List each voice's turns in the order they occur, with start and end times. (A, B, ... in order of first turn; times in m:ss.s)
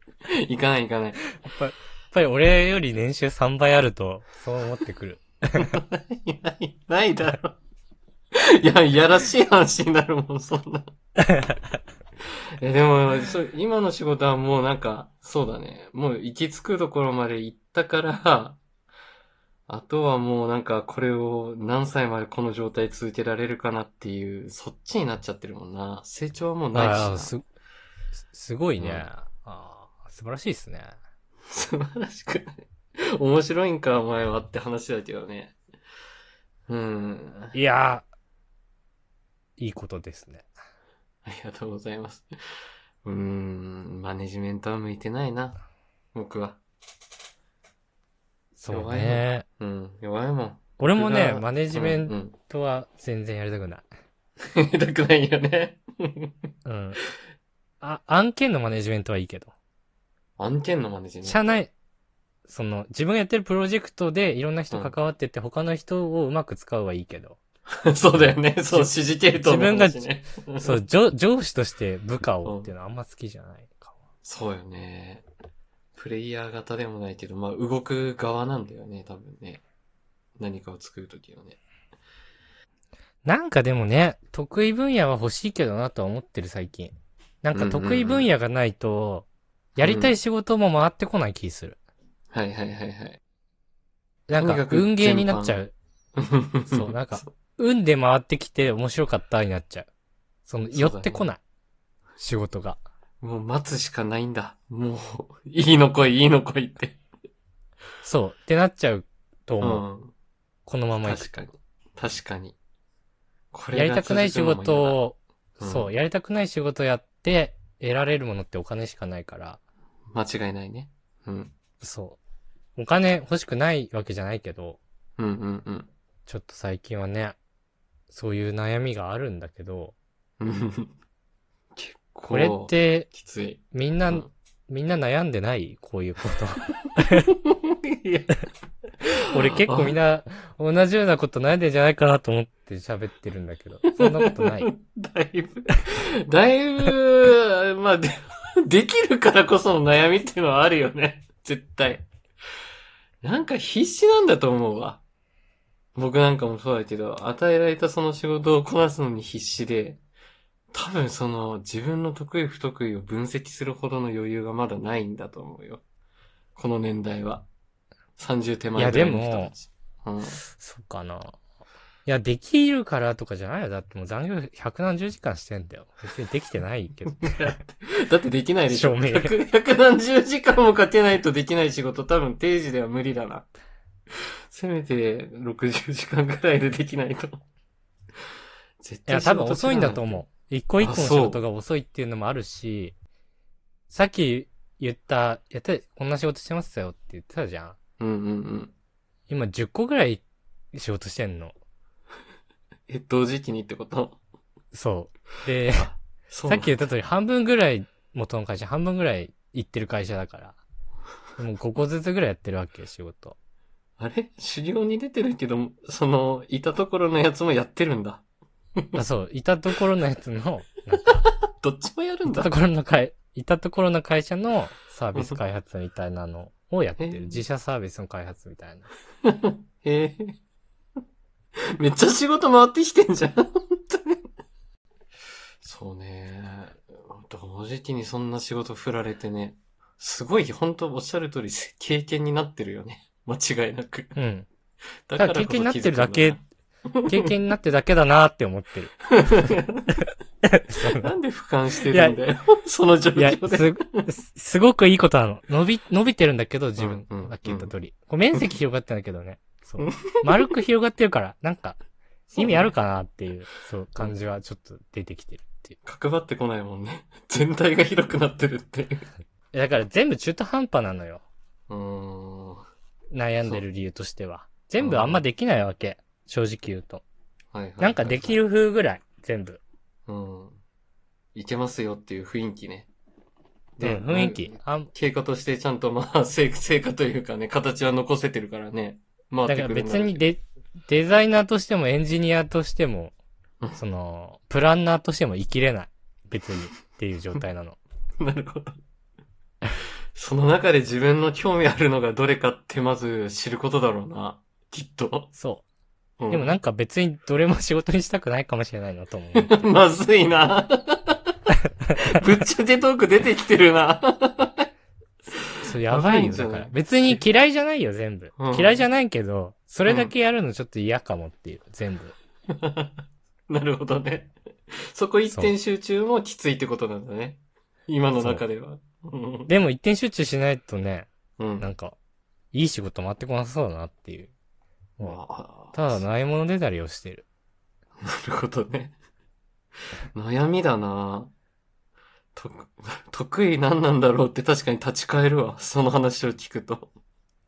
0:00.4-0:01.2 A
0:01.4-0:05.8 B
0:05.6-0:07.6 A
0:08.6-0:10.9 A
0:11.2-0:11.6 B
0:12.6-0:18.6 A
0:19.7-0:27.3 A
0:26.7-0:27.4 B
0:28.2-0:31.0 B
0:28.8-0:29.1 A
0:31.5-0:32.6 A
0:33.2-0:35.6 A
0:36.7-0:37.6 A
0:37.5-0:38.1 B
0:39.6-0:40.4 B
0:41.2-0:42.3 A
0:43.0-0:45.6 A
0:46.1-0:46.6 A
0:48.6-0:49.4 B
0:48.7-0:52.4 A
0:50.8-0:53.9 B
0:54.5-0:56.3 A
0:56.6-0:57.0 B
0:57.8-0:59.5 B
1:00.4-1:01.6 A
1:01.2-1:01.7 B
1:02.5-1:07.4 B
1:07.9-1:10.8 A
1:08.7-1:14.0 B
1:12.4-1:12.7 A
1:14.2-1:15.2 A
1:16.0-1:19.6 A
1:20.4-1:21.6 A
1:23.2-1:29.3 B
1:27.5-1:28.3 A
1:29.8-1:30.1 A
1:29.8-1:31.8 B
1:32.3-1:33.2 A
1:34.3-1:35.7 B
1:34.4-1:35.6 A
1:36.2-1:37.3 A
1:36.7-1:39.9 B
1:40.5-1:41.4 B
1:40.7-1:41.3 A
1:42.2-1:42.8 B
1:43.2-1:47.0 A
1:48.0-1:49.8 B
1:49.6-1:50.1 A
1:50.7-1:51.3 B
1:51.0-1:52.6 A
1:53.5-1:55.0 A
1:53.7-1:59.6 B
1:55.6-1:55.9 A
2:00.1-2:01.5 A
2:01.8-2:02.2 B
2:02.8-2:04.8 B
2:05.2-2:05.9 A
2:06.3-2:07.4 B
2:08.1-2:10.0 B
2:10.4-2:10.9 A
2:11.8-2:14.3 A
2:12.3-2:13.1 B
2:13.7-2:17.3 B
2:17.5-2:18.4 A
2:19.3-2:24.7 B
2:19.6-2:20.0 A
2:24.0-2:32.1 A
2:33.2-2:35.0 A
2:36.0-2:40.0 A
2:40.7-2:45.8 A
2:46.6-2:47.5 A
2:48.2-2:50.4 A
2:48.8-2:49.5 B
2:50.5-2:51.4 B
2:52.1-2:57.6 B
2:57.1-3:03.5 A
2:58.7-2:59.4 B
3:04.5-3:07.4 A
3:08.8-3:10.2 A
3:09.1-3:13.0 B
3:10.8-3:11.4 A
3:13.9-3:17.8 B
3:18.0-3:18.7 A
3:19.3-3:21.6 B
3:22.9-3:24.2 A
3:24.7-3:25.9 B
3:25.8-3:26.9 A
3:26.5-3:30.6 B
3:31.4-3:33.4 B
3:34.0-3:38.2 A
3:39.0-3:41.2 B
3:41.6-3:42.6 A
3:42.3-3:48.9 B
3:47.0-3:47.4 A
3:49.2-3:50.4 A
3:51.8-3:54.2 A
3:55.6-4:04.1 A
4:04.2-4:04.5 B
4:05.1-4:06.4 A
4:05.2-4:06.4 B
4:07.0-4:07.3 A
4:07.1-4:09.6 B
4:09.2-4:09.9 A
4:10.4-4:11.1 B
4:11.0-4:14.1 A
4:11.9-4:12.2 B
4:13.2-4:21.8 B
4:16.8-4:17.7 A
4:19.8-4:20.5 A
4:22.3-4:22.7 A
4:22.4-4:25.8 B
4:25.8-4:29.0 A
4:29.5-4:31.2 B
4:31.7-4:32.6 A
4:33.1-4:37.0 B
4:34.8-4:35.2 A
4:37.5-4:38.4 A
4:37.8-4:39.6 B
4:40.1-4:40.6 A
4:41.4-4:42.9 A
4:43.8-4:50.3 A
4:43.8-4:44.9 B
4:49.5-4:53.1 B
4:53.8-4:57.8 B
4:58.2-4:58.8 A
5:00.2-5:05.3 A
5:05.4-5:05.6 B
5:06.2-5:06.6 A
5:06.3-5:09.7 B
5:09.4-5:11.2 A
5:12.0-5:14.7 A
5:15.6-5:22.2 B
5:15.9-5:17.2 A
5:18.4-5:18.8 A
5:19.9-5:20.1 A
5:22.5-5:23.0 A
5:23.5-5:29.5 A
5:28.2-5:28.4 B
5:29.5-5:32.0 B
5:31.4-5:31.7 A
5:32.5-5:34.3 B
5:35.0-5:36.0 A
5:35.7-5:37.2 B
5:38.0-5:39.0 A
5:40.1-5:41.3 A
5:42.4-5:46.9 A